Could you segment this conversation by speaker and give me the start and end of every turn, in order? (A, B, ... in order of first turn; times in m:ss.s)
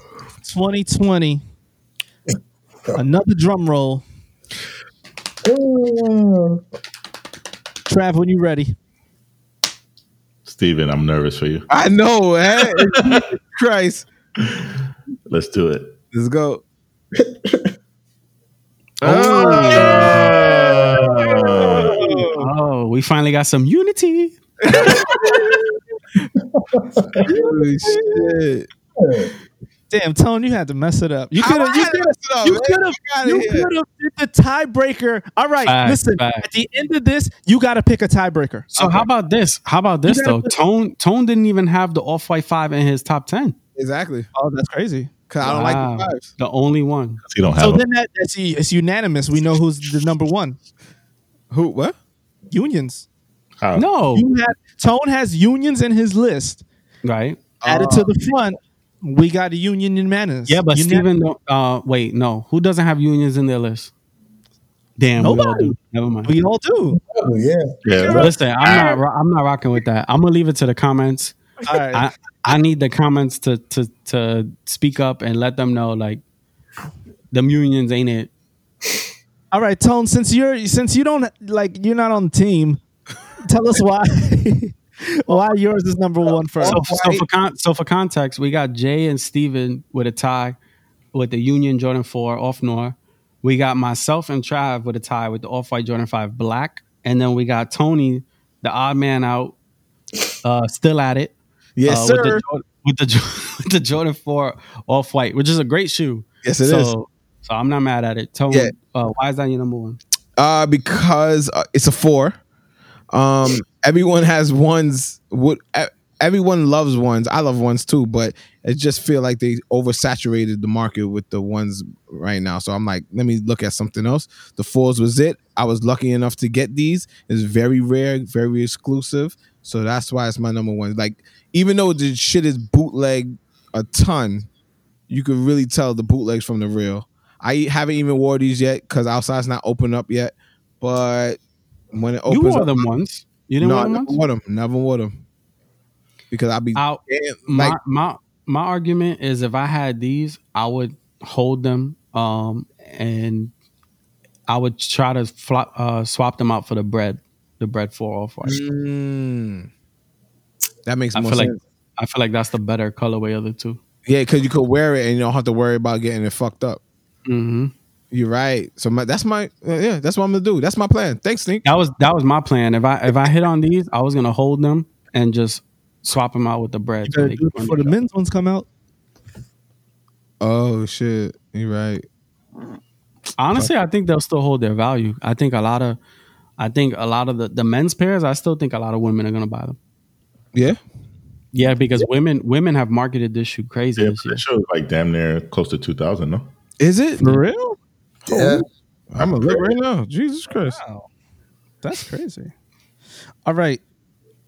0:00.4-0:01.4 A
0:03.0-0:04.0 A
0:05.4-0:06.6 B
0:07.9-0:08.8 A
0:10.4-0:11.7 C
0:11.7-0:14.1 D
0:12.6-0:13.3 C
0:14.4-0:14.7 C
0:15.3-0:16.0 C
0:16.1-0:16.6 D
0:17.2-0:17.6 B
0:19.0-0:22.0 C
0:19.0-0:20.9 D
0:19.2-0:20.2 E
0:21.6-0:22.5 A
0:21.9-0:22.4 D
0:22.4-0:24.4 E
0:24.6-0:25.4 D
0:26.6-0:28.4 B
0:27.3-0:28.0 A
0:27.3-0:28.7 D
0:29.0-0:29.3 B
0:29.9-0:38.7 A
0:31.3-0:33.7 D
0:35.6-0:36.5 E
0:38.7-0:43.6 E
0:40.0-0:40.5 A
0:43.8-0:44.3 D
0:44.3-0:45.1 A
0:45.3-0:46.3 D
0:45.4-0:47.2 E
0:47.2-0:47.8 C
0:47.6-0:50.6 A
0:51.5-0:52.0 D
0:52.5-0:53.1 A
0:53.6-0:53.9 C
0:53.7-0:54.3 E
0:54.1-0:56.6 A
0:57.0-0:57.4 E
0:57.6-0:58.1 D
0:57.7-1:01.1 A
1:00.5-1:03.9 E
1:05.0-1:06.4 E
1:05.2-1:07.0 A
1:07.1-1:08.2 B
1:07.8-1:08.8 C
1:08.0-1:09.0 A
1:08.2-1:16.2 E
1:11.6-1:12.0 A
1:17.3-1:18.3 E
1:19.5-1:22.8 A
1:23.4-1:26.8 A
1:26.6-1:27.2 D
1:26.6-1:30.6 E
1:31.1-1:39.6 E
1:40.4-1:50.0 E
1:41.8-1:42.4 D
1:46.4-1:46.9 D
1:50.4-1:52.4 D
1:53.1-2:14.5 D
2:15.1-2:21.4 D
2:21.9-2:22.9 D
2:22.3-2:24.2 E
2:23.6-2:25.2 D
2:26.3-2:27.8 D
2:26.8-2:33.5 E
2:34.5-2:38.6 E
2:38.4-2:39.7 D
2:40.9-2:41.6 D
2:41.1-2:43.8 E
2:44.1-2:46.8 D
2:47.3-2:47.7 E
2:48.1-2:51.6 D
2:51.6-2:57.9 E
2:57.0-2:58.7 A
3:00.4-3:02.1 D
3:03.4-3:06.0 E
3:06.6-3:09.8 E
3:10.5-3:10.8 D
3:11.5-3:14.4 E
3:14.0-3:16.5 C
3:16.8-3:17.4 D
3:17.2-3:17.8 A
3:18.3-3:18.7 B
3:18.3-3:18.6 D
3:19.1-3:20.8 D
3:19.2-3:19.6 C
3:20.7-3:21.1 A
3:21.8-3:22.5 A
3:23.5-3:23.8 A